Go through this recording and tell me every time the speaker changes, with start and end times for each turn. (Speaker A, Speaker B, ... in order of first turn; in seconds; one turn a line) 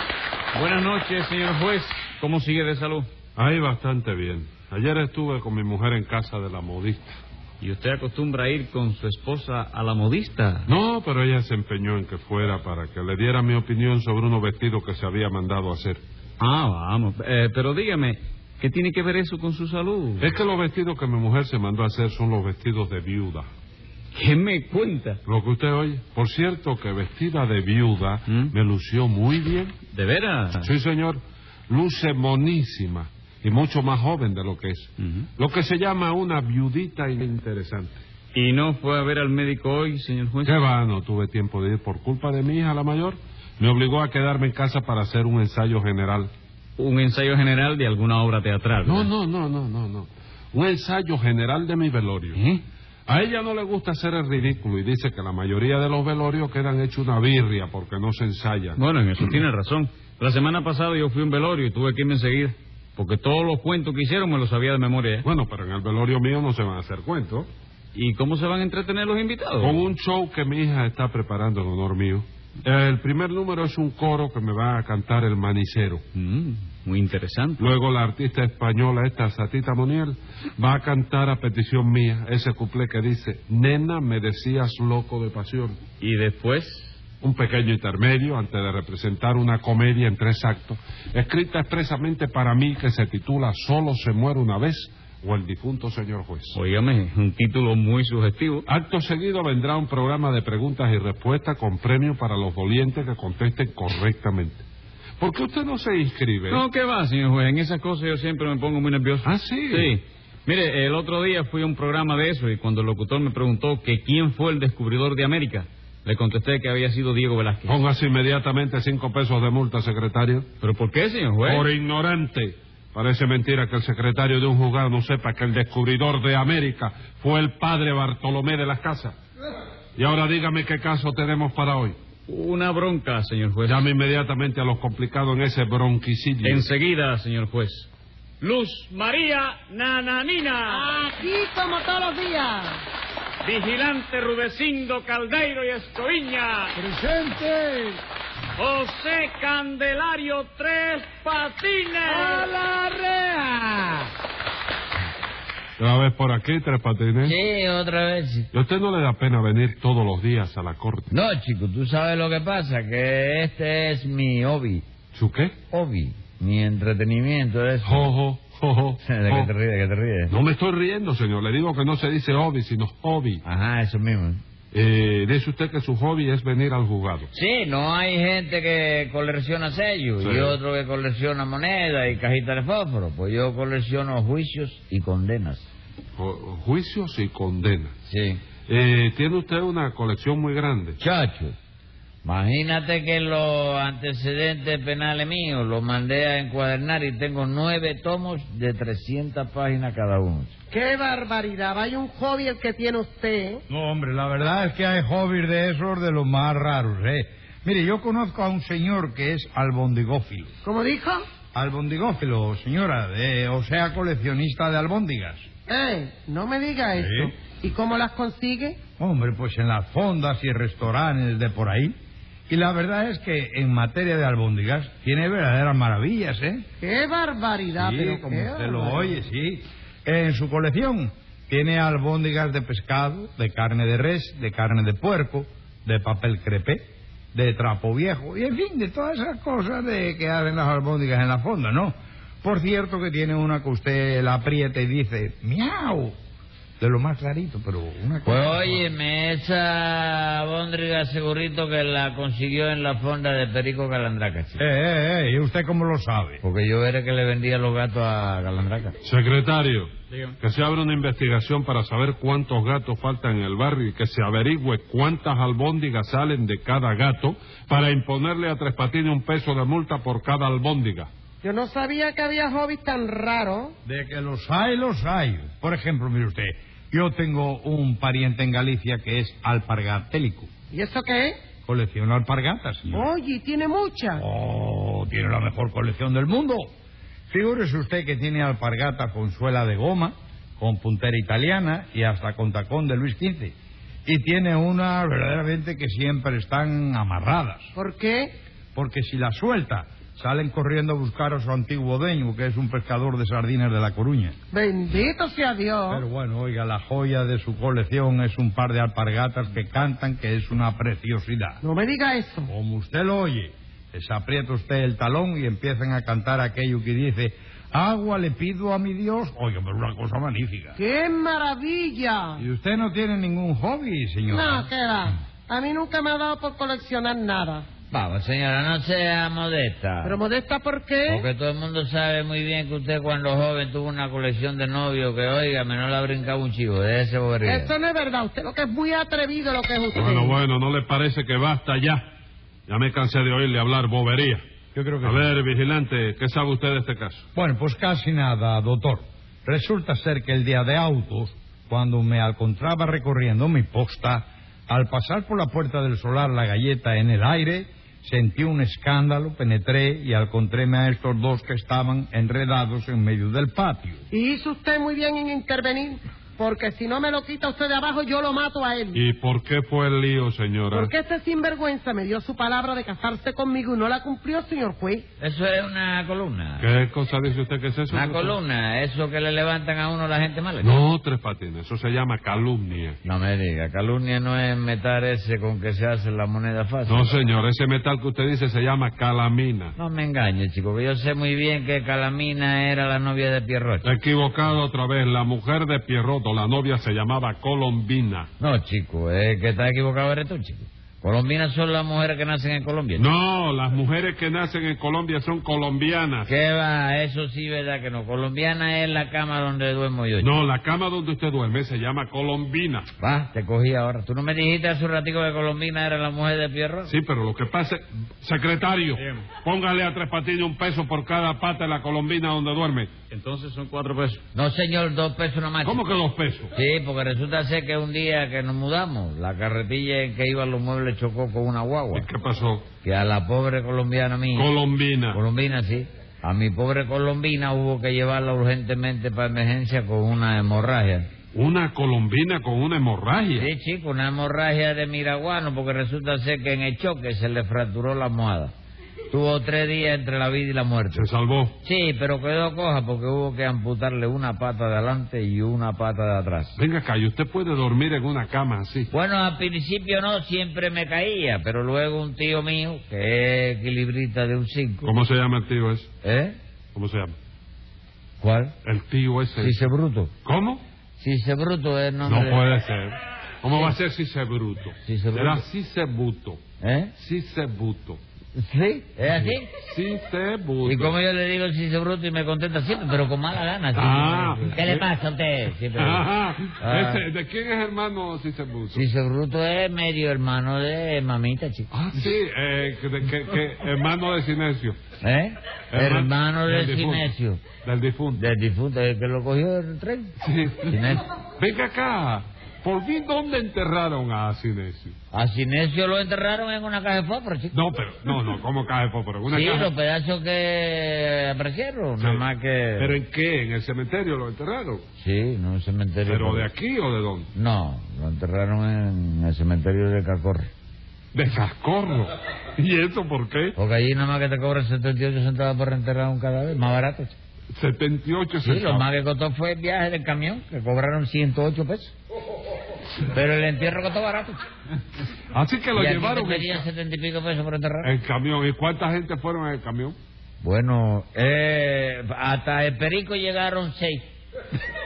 Speaker A: 0.5-3.1
Speaker B: 3.4-7.2
Speaker A: 7.6-10.7
Speaker B: 10.7-16.0
Speaker A: 16.4-20.3
Speaker B: 20.2-23.5
Speaker A: 24.1-25.2
Speaker B: 25.2-29.7
Speaker A: 28.3-28.5
Speaker A: 29.9-30.7
Speaker B: 30.6-38.0
Speaker A: 38.3-40.6
Speaker B: 40.4-46.3
Speaker A: 46.8-49.1
Speaker B: 48.8-52.4
Speaker A: 52.3-52.6
Speaker B: 53.1-58.8
Speaker A: 58.8-65.3
Speaker B: 65.2-67.5
Speaker A: 67.9-69.9
Speaker B: 69.6-76.0
Speaker A: 76.1-77.7
Speaker B: 77.6-85.8
Speaker A: 86.0-87.0
Speaker B: 87.2-96.6
Speaker A: 96.5-98.7
Speaker B: 98.7-104.6
Speaker B: 105.2-106.6
Speaker A: 106.5-117.8
Speaker B: 109.2-110.0
Speaker B: 117.7-120.5
Speaker A: 120.6-121.7
Speaker B: 121.4-129.2
Speaker B: 129.9-132.0
Speaker A: 132.3-133.8
Speaker B: 133.6-136.7
Speaker A: 136.4-137.9
Speaker A: 138.4-141.0
Speaker C: 140.7-142.8
Speaker A: 143.4-146.8
Speaker D: 146.8-148.0
Speaker A: 148.6-152.5
Speaker D: 152.0-154.1
Speaker B: 155.8-157.3
Speaker E: 157.2-158.5
Speaker B: 158.5-161.1
Speaker E: 161.1-164.8
Speaker B: 165.1-165.5
Speaker E: 165.7-168.1
Speaker B: 167.8-169.5
Speaker E: 169.0-170.3
Speaker B: 170.3-173.4
Speaker E: 173.4-174.4
Speaker B: 174.7-177.3
Speaker E: 177.3-185.7
Speaker B: 180.2-180.6
Speaker B: 186.2-187.9
Speaker E: 188.1-188.4
Speaker B: 188.7-191.0
Speaker E: 191.0-191.5
Speaker E: 192.2-200.5
Speaker C: 200.7-203.6
Speaker D: 203.7-210.5
Speaker C: 210.6-211.2
Speaker D: 211.5-215.4
Speaker C: 215.7-218.8
Speaker D: 216.9-217.3
Speaker D: 219.0-221.9
Speaker D: 222.5-226.6
Speaker C: 226.8-229.1
Speaker D: 227.8-246.1
Speaker D: 246.8-248.9
Speaker E: 248.2-254.6
Speaker D: 254.6-256.4
Speaker E: 256.4-258.9
Speaker B: 259.0-271.1
Speaker A: 260.1-260.4
Speaker C: 271.4-273.7
Speaker D: 273.8-280.5
Speaker C: 280.7-281.4
Speaker D: 281.6-283.1
Speaker C: 282.9-284.2
Speaker D: 284.1-286.7
Speaker D: 287.3-293.5
Speaker D: 294.1-297.7
Speaker C: 297.7-298.3
Speaker D: 298.7-304.3
Speaker C: 304.5-306.0
Speaker D: 305.9-311.6
Speaker C: 311.6-312.5
Speaker D: 312.5-320.8
Speaker C: 320.8-322.4
Speaker D: 322.4-324.7
Speaker C: 324.3-327.6
Speaker E: 327.9-330.2
Speaker C: 330.0-331.3
Speaker E: 331.1-337.7
Speaker C: 337.4-340.4
Speaker B: 339.9-342.1
Speaker B: 342.7-344.4
Speaker D: 344.7-345.3
Speaker B: 345.0-347.2
Speaker D: 347.4-364.0
Speaker C: 364.1-369.0
Speaker B: 368.9-370.9
Speaker C: 370.7-375.0
Speaker E: 375.2-376.6
Speaker B: 376.6-378.4
Speaker E: 377.9-380.8
Speaker B: 380.6-383.0
Speaker E: 383.0-387.1
Speaker B: 386.9-389.7
Speaker E: 389.8-393.9
Speaker B: 393.8-398.3
Speaker E: 398.4-403.0
Speaker B: 403.0-406.3
Speaker E: 406.2-410.3
Speaker B: 410.2-412.9
Speaker E: 413.0-416.9
Speaker B: 416.9-422.9
Speaker A: 418.9-419.4
Speaker A: 423.1-424.2
Speaker E: 424.3-425.8
Speaker B: 425.6-426.5
Speaker E: 426.5-432.1
Speaker B: 431.9-432.6
Speaker E: 432.8-434.5
Speaker B: 434.3-435.2
Speaker E: 435.1-441.1
Speaker B: 441.3-443.5
Speaker E: 443.4-448.5
Speaker E: 449.1-451.1
Speaker B: 450.9-451.6
Speaker E: 451.6-456.6
Speaker B: 456.6-458.9
Speaker E: 458.9-464.9
Speaker B: 464.8-465.9
Speaker E: 466.0-466.4
Speaker B: 466.7-467.1
Speaker E: 468.2-468.5
Speaker B: 468.6-469.6
Speaker E: 469.4-470.1
Speaker B: 470.2-470.6
Speaker E: 471.0-472.4
Speaker B: 472.0-476.4
Speaker E: 474.8-475.4
Speaker E: 476.6-476.9
Speaker B: 476.9-478.0
Speaker E: 478.4-479.5
Speaker B: 479.1-480.9
Speaker E: 480.6-486.1
Speaker B: 483.7-484.9
Speaker B: 485.8-488.9
Speaker E: 486.6-487.0
Speaker E: 488.7-491.7
Speaker B: 491.7-494.8
Speaker E: 495.0-497.4
Speaker B: 495.7-497.1
Speaker B: 497.6-498.2
Speaker E: 498.2-500.1
Speaker B: 500.2-500.8
Speaker E: 500.7-501.0
Speaker B: 501.4-504.9
Speaker E: 505.1-507.6
Speaker B: 507.5-509.7
Speaker E: 509.3-513.0
Speaker B: 512.0-512.2
Speaker B: 512.8-514.8
Speaker E: 515.0-516.5
Speaker B: 516.0-517.3
Speaker E: 517.3-520.5
Speaker B: 521.1-523.5
Speaker E: 523.5-527.1
Speaker B: 527.5-528.9
Speaker E: 528.4-531.9
Speaker E: 533.1-534.4
Speaker B: 535.3-536.6
Speaker E: 535.7-537.9
Speaker B: 537.8-540.0
Speaker E: 540.4-544.0